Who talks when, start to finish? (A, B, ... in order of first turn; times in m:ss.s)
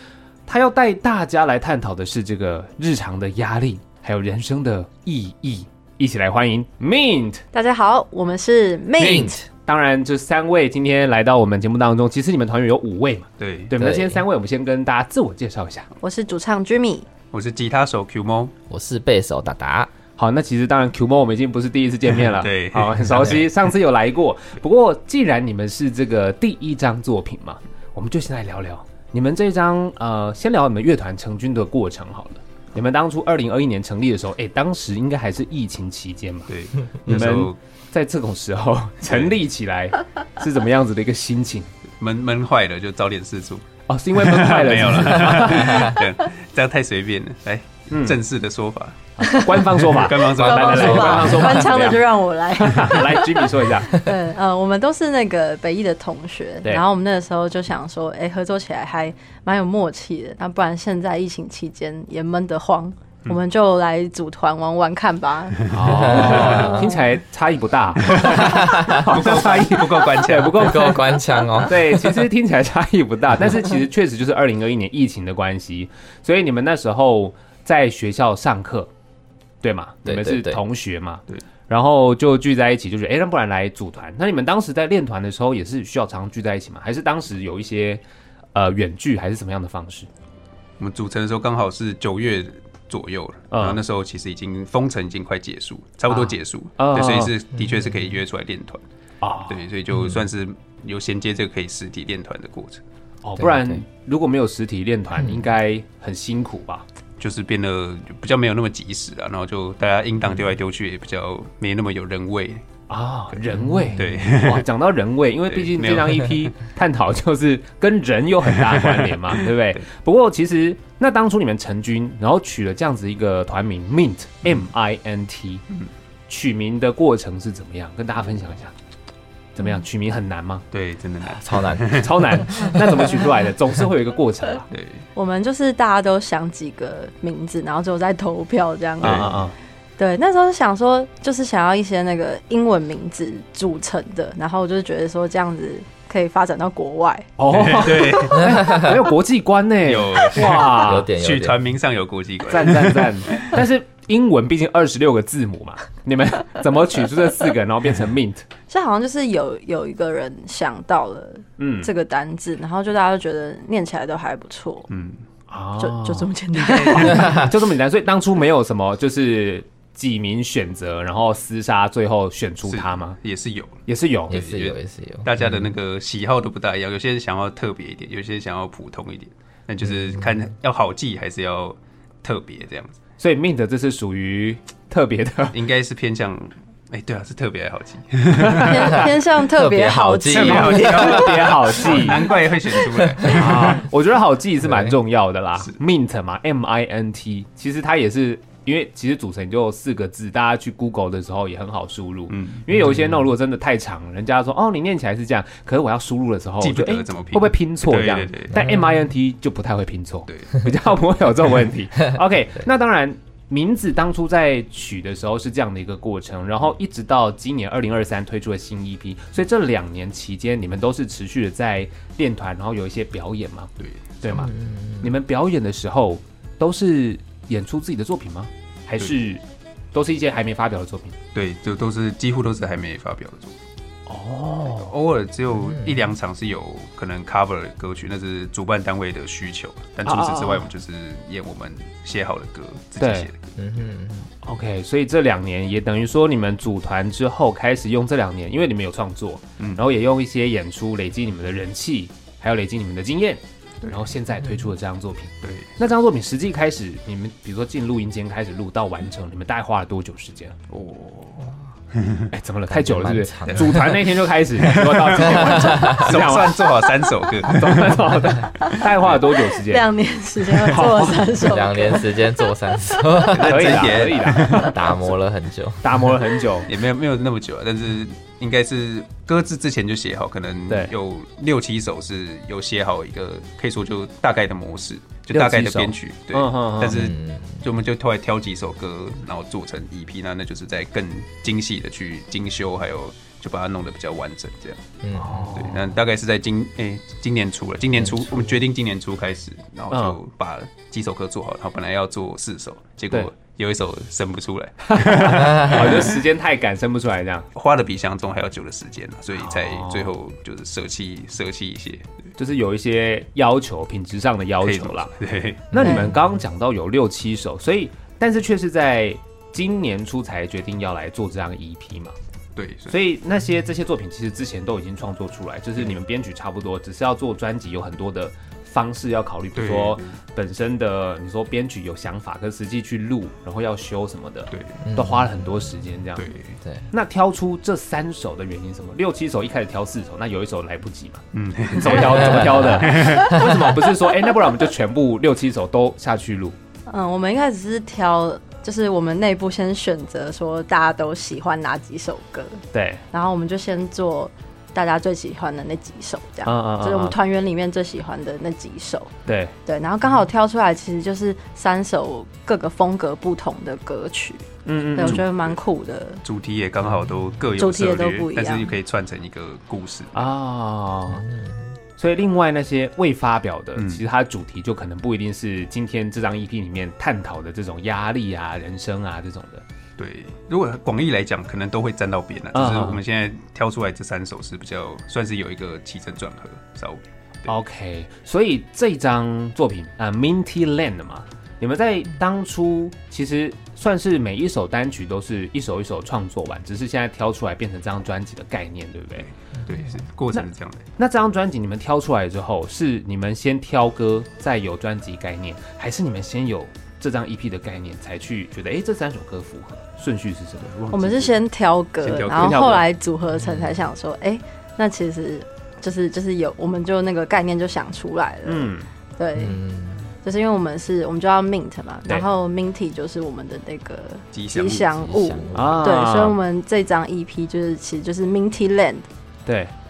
0:00.5-0:07.4 A
0:07.5-0:09.4 B
0:09.0-0:15.9 A
0:13.4-0:13.7 C
0:13.8-0:14.2 D
0:16.0-0:17.1 B
0:17.3-0:18.5 C
0:18.7-0:19.9 D
0:20.2-0:36.5 A
0:22.2-0:23.5 C
0:36.5-0:37.6 C
0:37.0-0:41.7 A
0:39.0-0:39.4 C
0:42.0-0:43.6 C
0:43.9-0:46.0 A
0:44.2-0:49.0 C
0:47.9-0:48.2 A
0:49.2-1:07.0 B
0:49.2-0:54.0 A
0:49.7-0:51.9 C
1:05.7-1:18.9 A
1:05.8-1:06.8 C
1:05.8-1:06.7 D
1:08.0-1:11.3 C
1:08.4-1:09.0 D
1:10.6-1:12.1 D
1:19.6-1:28.0 A
1:20.0-1:20.6 D
1:28.5-1:30.1 A
1:30.8-1:38.8 C
1:33.5-1:33.8 A
1:36.1-1:37.3 A
1:39.2-1:39.6 A
1:39.5-1:42.8 C
1:39.9-1:40.2 D
1:43.2-1:46.8 A
1:43.4-1:43.8 D
1:45.2-1:45.5 D
1:47.2-1:52.6 C
1:52.9-2:05.6 A
1:53.6-1:54.0 D
1:53.9-1:54.7 C
1:55.5-1:56.5 C
1:58.5-1:59.8 C
2:06.3-2:08.7 A
2:09.5-2:10.6 A
2:10.7-2:13.3 C
2:11.4-2:14.7 A
2:11.4-2:12.0 D
2:14.7-2:15.0 C
2:15.1-2:19.4 B
2:19.0-2:19.4 C
2:19.0-2:19.5 A
2:20.0-2:27.3 B
2:27.4-2:31.1 A
2:27.5-2:28.8 C
2:28.6-2:28.9 D
2:29.8-2:33.6 C
2:30.6-2:31.6 D
2:32.5-2:38.4 A
2:38.7-2:44.9 B
2:41.6-2:41.9 A
2:44.9-2:45.2 C
2:45.5-2:53.2 A
2:45.8-2:47.5 B
2:52.6-3:02.9 C
2:53.9-2:54.4 A
2:54.3-2:55.7 D
3:03.2-3:05.6 A
3:05.5-3:09.1 C
3:08.5-3:11.2 B
3:09.4-3:12.3 D
3:10.2-3:13.8 C
3:10.7-3:12.3 A
3:12.8-3:13.7 D
3:13.2-3:49.4 A
3:14.7-3:14.9 D
3:22.3-3:22.6 C
3:22.8-3:23.3 D
3:26.6-3:28.6 C
3:28.6-3:29.0 D
3:44.3-3:45.1 D
3:49.9-3:51.1 A
3:51.3-3:53.6 C
3:54.1-3:54.9 A
3:54.7-4:03.5 C
3:55.6-3:56.0 D
4:00.0-4:00.7 A
4:03.0-4:03.3 A
4:03.6-4:04.3 D
4:04.4-4:20.5 A
4:13.8-4:14.1 C
4:15.4-4:15.8 C
4:20.7-4:22.3 C
4:22.3-4:29.9 A
4:22.7-4:24.0 D
4:23.5-4:29.4 C
4:25.4-4:26.2 D
4:29.5-4:32.1 B
4:30.6-4:31.4 A
4:31.4-4:36.0 D
4:33.3-4:34.9 C
4:33.4-4:35.1 A
4:35.8-4:36.7 A
4:36.7-4:54.8 C
4:40.7-4:40.9 A
4:45.3-4:47.0 A
4:46.9-4:47.6 D
4:55.0-4:55.6 D
4:55.1-4:55.9 A
4:55.5-5:06.2 C
4:59.9-5:00.2 A
5:04.9-5:07.4 A
5:07.5-5:12.3 C
5:09.3-5:10.1 A
5:12.4-5:15.1 A
5:14.6-5:15.7 C
5:15.7-5:22.1 A
5:15.8-5:16.1 D
5:22.6-5:23.0 C
5:22.9-5:36.3 A
5:29.5-5:30.1 C
5:34.5-5:34.8 C
5:34.8-5:35.8 D
5:36.2-5:36.6 C
5:36.9-5:41.2 A
5:41.3-5:43.9 C
5:41.7-5:46.6 A
5:41.8-5:42.4 B
5:42.1-5:43.6 D
5:46.9-5:59.1 B
5:52.7-5:53.0 A
5:56.4-5:57.2 A
5:59.3-5:59.5 A
5:59.6-6:06.2 B
6:04.6-6:05.2 A
6:05.0-6:05.3 C
6:06.2-6:10.3 C
6:07.6-6:08.7 B
6:10.1-6:11.3 A
6:11.1-6:11.6 D
6:12.0-6:19.6 A
6:13.8-6:14.0 C
6:20.0-6:27.5 C
6:22.5-6:23.0 A
6:27.5-6:39.3 A
6:39.2-6:40.9 C
6:40.3-6:50.9 A
6:50.7-6:51.3 C
6:50.9-6:59.6 B
6:52.0-6:52.8 C
6:52.4-6:52.8 A
6:58.4-6:58.9 A
6:59.4-7:00.1 D
7:00.2-7:09.1 B
7:04.3-7:04.9 C
7:05.0-7:06.0 D
7:05.5-7:06.4 A
7:09.4-7:09.7 A